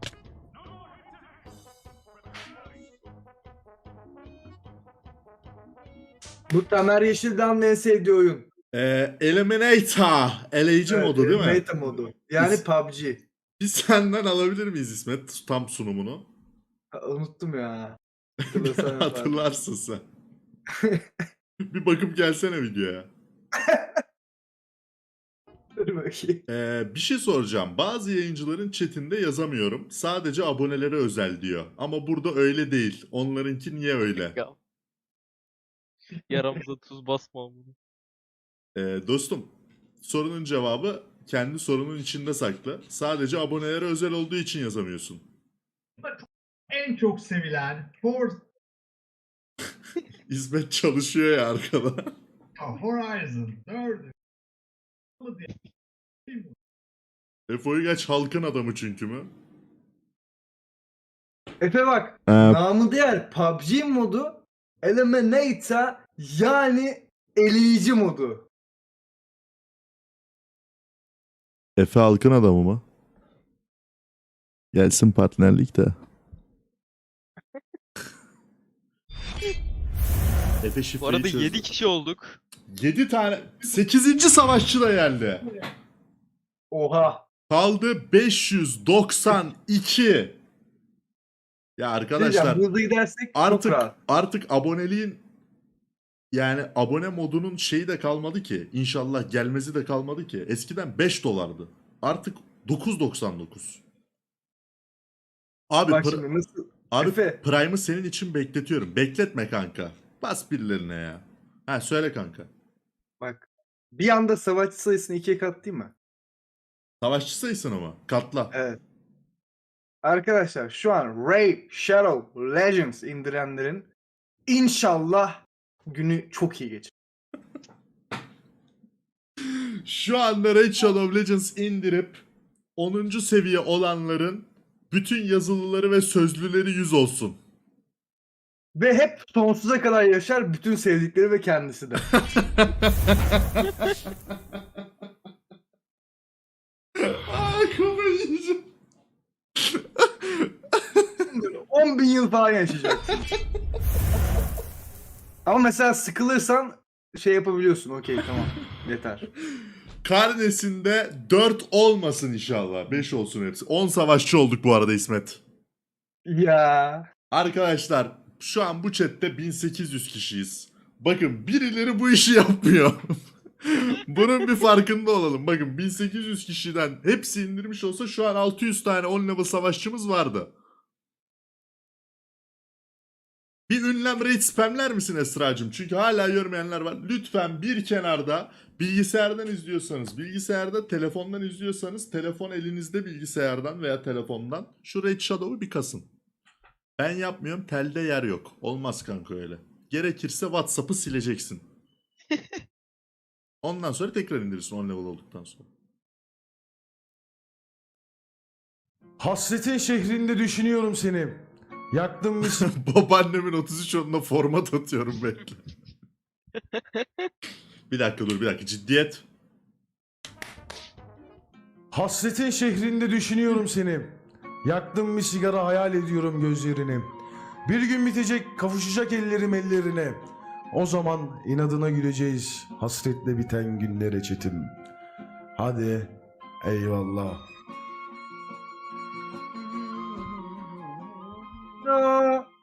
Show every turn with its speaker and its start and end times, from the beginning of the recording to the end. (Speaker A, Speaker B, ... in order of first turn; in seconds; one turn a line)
Speaker A: 6.5-8.5
Speaker B: 8.7-12.7
Speaker A: 10.9-13.2
Speaker B: 13.6-16.3
Speaker A: 16.9-18.0
Speaker B: 18.4-20.1
Speaker A: 18.5-19.4
Speaker B: 21.7-23.1
Speaker A: 23.7-24.0
Speaker A: 25.8-26.4
Speaker B: 26.5-34.4
Speaker C: 34.2-34.5
Speaker C: 36.3-37.7
Speaker B: 38.8-45.2
Speaker D: 46.8-48.3
Speaker B: 50.3-52.1
Speaker D: 52.8-54.0
Speaker B: 57.5-59.3
Speaker A: 61.6-68.5
Speaker B: 62.3-62.6
Speaker B: 71.8-72.8
Speaker B: 74.7-76.0
Speaker B: 80.6-81.7
Speaker C: 81.0-82.4
Speaker B: 82.7-85.5
Speaker A: 86.7-87.2
Speaker B: 87.5-90.4
Speaker B: 91.8-92.7
Speaker A: 92.1-93.9
Speaker B: 93.3-95.2
Speaker B: 96.3-103.8
Speaker B: 105.7-106.3
Speaker A: 105.8-107.4
Speaker B: 106.9-112.5
Speaker A: 113.2-115.9
Speaker B: 117.0-118.5
Speaker A: 118.5-118.8
Speaker A: 120.0-123.9
Speaker A: 124.5-126.9
Speaker B: 129.9-132.2
Speaker B: 132.8-137.4
Speaker A: 138.8-142.0
Speaker B: 142.1-143.7
Speaker B: 147.0-148.7
Speaker B: 149.7-150.5
Speaker A: 151.3-153.3
Speaker A: 155.5-159.3
Speaker B: 160.0-165.4
Speaker A: 166.3-167.1
Speaker B: 167.3-173.1
Speaker B: 173.6-180.5
Speaker B: 183.7-196.1
Speaker B: 197.0-201.7
Speaker B: 203.6-205.7
Speaker E: 209.2-212.7
Speaker B: 212.5-215.6
Speaker B: 217.9-219.3
Speaker E: 221.9-227.1
Speaker E: 227.7-234.7
Speaker E: 235.6-237.4
Speaker A: 241.8-242.5